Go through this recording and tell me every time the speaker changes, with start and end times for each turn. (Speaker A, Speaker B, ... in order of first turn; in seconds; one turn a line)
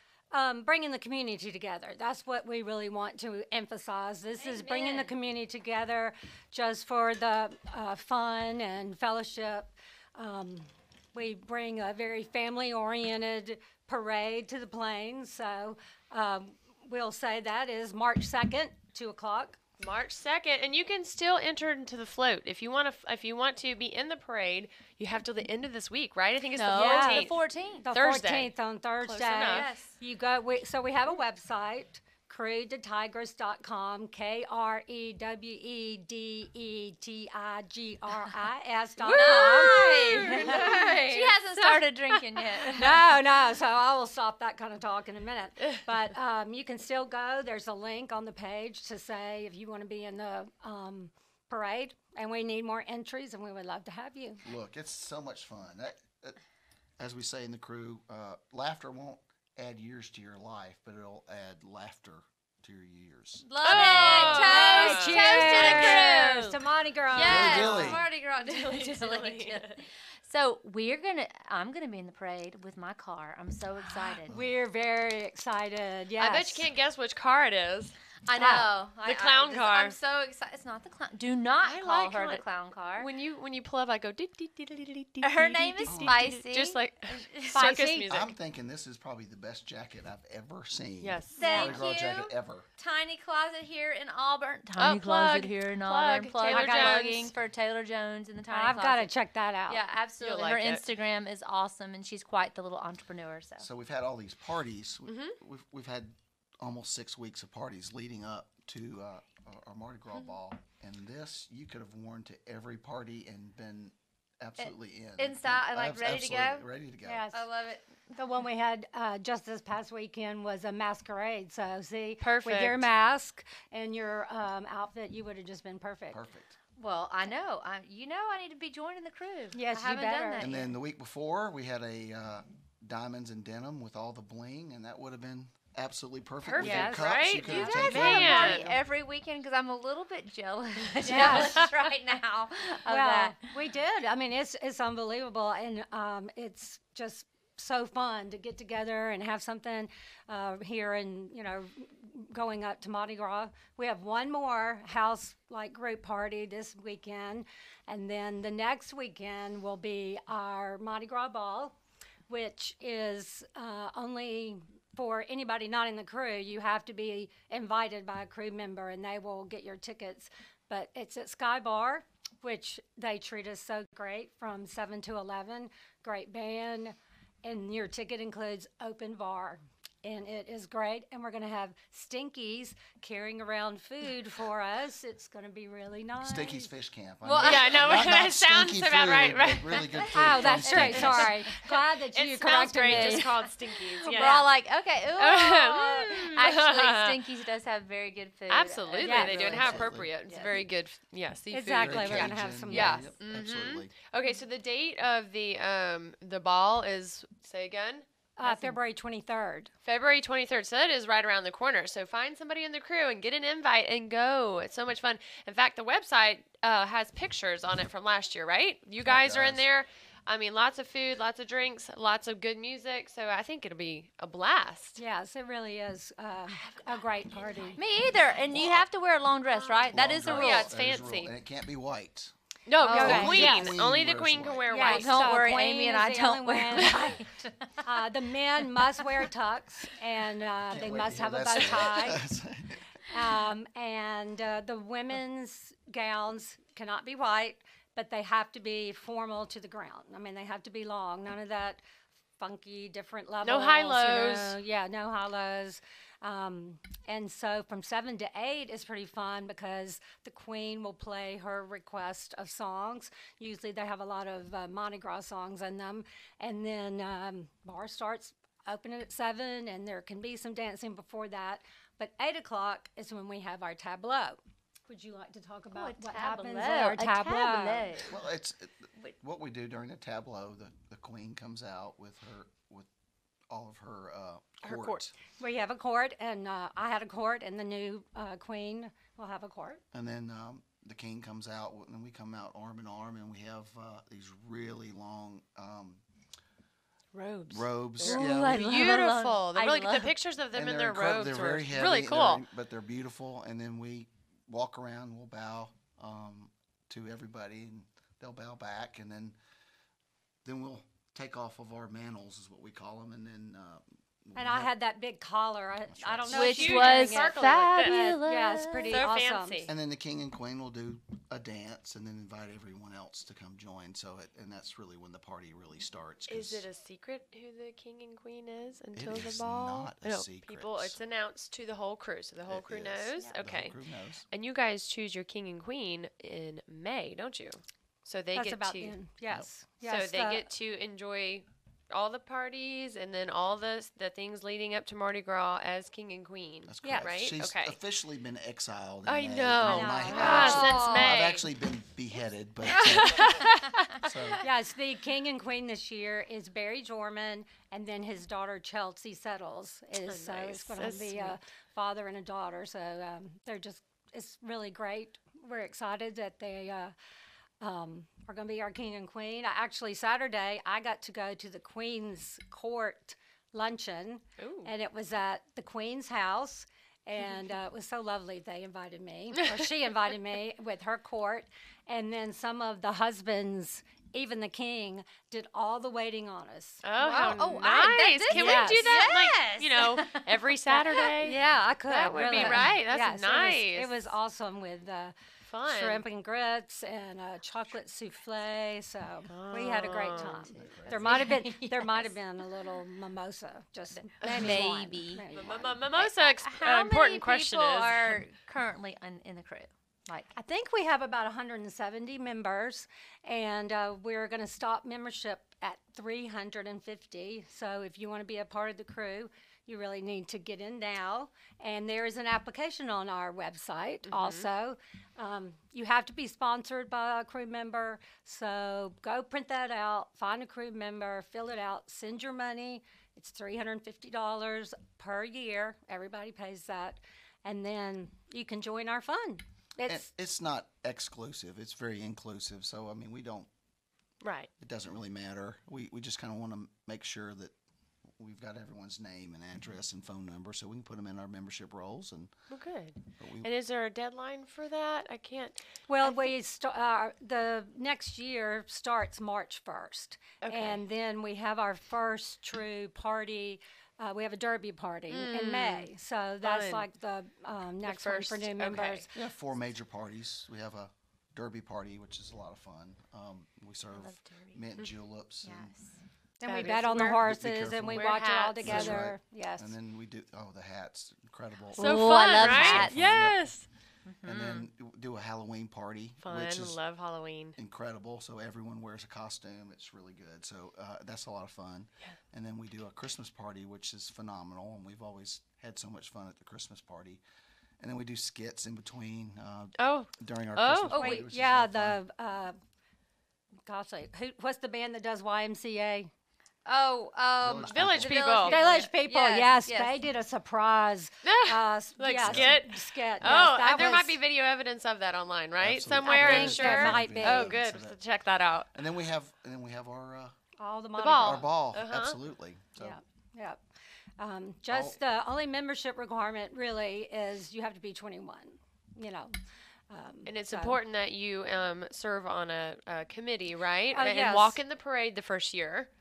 Speaker A: 0.3-19.6
Speaker B: 4.4-5.1
Speaker C: 19.8-29.7
Speaker B: 26.5-27.9
Speaker A: 26.7-27.3
Speaker A: 27.8-41.3
Speaker B: 29.4-30.0
Speaker B: 39.0-43.1
Speaker C: 39.0-42.2
Speaker A: 42.6-54.4
Speaker D: 54.4-56.4
Speaker D: 57.0-64.4
Speaker B: 63.4-66.6
Speaker C: 63.6-66.2
Speaker A: 64.2-67.9
Speaker B: 67.1-74.3
Speaker D: 67.2-68.1
Speaker C: 67.3-69.8
Speaker A: 74.2-76.7
Speaker C: 76.2-77.9
Speaker B: 78.3-83.1
Speaker A: 78.3-78.7
Speaker C: 79.0-80.0
Speaker C: 81.6-82.5
Speaker C: 83.0-88.3
Speaker B: 85.2-87.7
Speaker D: 85.9-86.2
Speaker A: 87.5-88.1
Speaker D: 88.1-92.7
Speaker C: 91.0-91.8
Speaker B: 91.4-99.1
Speaker A: 91.4-91.8
Speaker C: 94.8-97.3
Speaker A: 96.4-97.3
Speaker A: 98.5-99.8
Speaker B: 99.7-103.7
Speaker C: 100.2-100.8
Speaker D: 103.6-117.2
Speaker C: 105.1-105.3
Speaker B: 114.6-116.6
Speaker A: 117.0-117.4
Speaker B: 117.3-117.8
Speaker A: 118.2-126.2
Speaker C: 122.2-122.9
Speaker D: 126.1-126.5
Speaker B: 126.8-130.7
Speaker A: 129.5-130.5
Speaker D: 130.4-138.8
Speaker A: 136.4-137.2
Speaker C: 136.6-138.7
Speaker B: 137.3-143.4
Speaker A: 141.0-141.7
Speaker C: 141.1-141.7
Speaker A: 142.9-161.8
Speaker A: 162.3-186.7
Speaker D: 186.2-191.3
Speaker B: 187.2-188.1
Speaker C: 187.4-190.1
Speaker B: 190.0-191.4
Speaker A: 190.1-193.3
Speaker C: 192.1-194.5
Speaker B: 192.8-200.6
Speaker A: 194.0-194.4
Speaker C: 195.2-197.3
Speaker C: 198.5-208.8
Speaker A: 199.0-199.7
Speaker D: 199.5-200.1
Speaker A: 201.5-203.1
Speaker D: 201.8-203.9
Speaker A: 208.4-209.7
Speaker C: 209.8-225.0
Speaker D: 219.0-219.7
Speaker A: 225.0-227.8
Speaker B: 227.8-230.7
Speaker D: 228.5-228.8
Speaker D: 229.9-232.3
Speaker C: 230.2-231.3
Speaker C: 232.7-235.4
Speaker B: 232.8-233.5
Speaker A: 232.9-233.8
Speaker D: 232.9-234.7
Speaker A: 234.7-237.2
Speaker B: 234.8-237.8
Speaker A: 237.8-242.2
Speaker D: 240.7-242.8
Speaker A: 243.1-251.8
Speaker A: 252.4-277.9
Speaker C: 253.4-254.6
Speaker B: 275.7-278.2
Speaker D: 278.0-282.9
Speaker D: 283.5-285.1
Speaker C: 284.6-285.0
Speaker A: 285.4-289.8
Speaker D: 289.9-296.0
Speaker C: 297.1-302.4
Speaker D: 297.5-298.7
Speaker B: 298.0-300.1
Speaker D: 300.5-309.4
Speaker D: 310.4-314.7
Speaker A: 314.4-319.7
Speaker D: 315.9-316.4
Speaker C: 316.3-318.0
Speaker B: 316.3-319.1
Speaker C: 318.9-319.7
Speaker D: 319.7-326.7
Speaker C: 326.3-333.8
Speaker D: 328.9-331.0
Speaker D: 332.5-334.2
Speaker C: 334.3-338.9
Speaker A: 338.3-340.4
Speaker C: 339.8-347.8
Speaker D: 346.7-353.4
Speaker A: 346.8-347.1
Speaker C: 349.1-351.5
Speaker A: 349.6-350.9
Speaker B: 350.1-351.1
Speaker C: 352.6-354.4
Speaker B: 352.8-353.0
Speaker D: 354.0-354.4
Speaker A: 354.4-366.9
Speaker C: 360.1-361.4
Speaker A: 367.6-386.9
Speaker C: 374.4-374.7
Speaker C: 386.8-394.1
Speaker B: 387.0-391.1
Speaker A: 388.3-389.0
Speaker A: 391.2-395.1
Speaker B: 392.4-392.7
Speaker C: 395.5-396.0
Speaker A: 395.7-405.9
Speaker C: 399.3-400.5
Speaker D: 400.5-401.2
Speaker B: 400.9-402.1
Speaker B: 404.2-405.2
Speaker C: 404.2-404.6
Speaker C: 405.3-408.2
Speaker B: 405.9-410.3
Speaker A: 410.4-440.1
Speaker C: 424.1-424.5
Speaker D: 439.9-443.5
Speaker C: 444.2-444.5
Speaker D: 444.6-447.5
Speaker D: 448.2-452.3
Speaker C: 452.5-456.3
Speaker D: 453.2-453.5
Speaker A: 455.9-469.1
Speaker C: 460.4-460.8
Speaker C: 465.1-465.9
Speaker C: 466.4-466.8
Speaker C: 467.8-469.0
Speaker D: 469.1-475.7
Speaker B: 473.9-474.6
Speaker B: 475.4-475.9
Speaker A: 476.4-479.8
Speaker C: 476.5-477.2
Speaker D: 477.1-483.5
Speaker C: 477.9-479.0
Speaker B: 481.7-483.2
Speaker C: 481.8-483.6
Speaker B: 484.1-484.7
Speaker D: 484.2-486.8
Speaker C: 486.2-487.6
Speaker D: 487.6-497.2
Speaker D: 497.8-502.0
Speaker C: 499.8-501.2
Speaker A: 500.9-502.6
Speaker A: 503.6-506.1
Speaker B: 506.7-510.0
Speaker D: 507.4-508.4
Speaker C: 507.6-508.6
Speaker A: 508.4-514.2
Speaker C: 511.2-518.7
Speaker D: 512.2-512.6
Speaker D: 515.6-518.0
Speaker B: 516.0-517.0
Speaker A: 516.1-517.6
Speaker D: 518.7-520.4
Speaker A: 520.6-521.5
Speaker C: 521.0-522.2
Speaker D: 521.2-523.0
Speaker A: 522.8-523.6
Speaker A: 524.2-529.3
Speaker D: 524.7-525.0
Speaker A: 529.9-530.8
Speaker C: 530.3-535.9
Speaker A: 533.9-534.6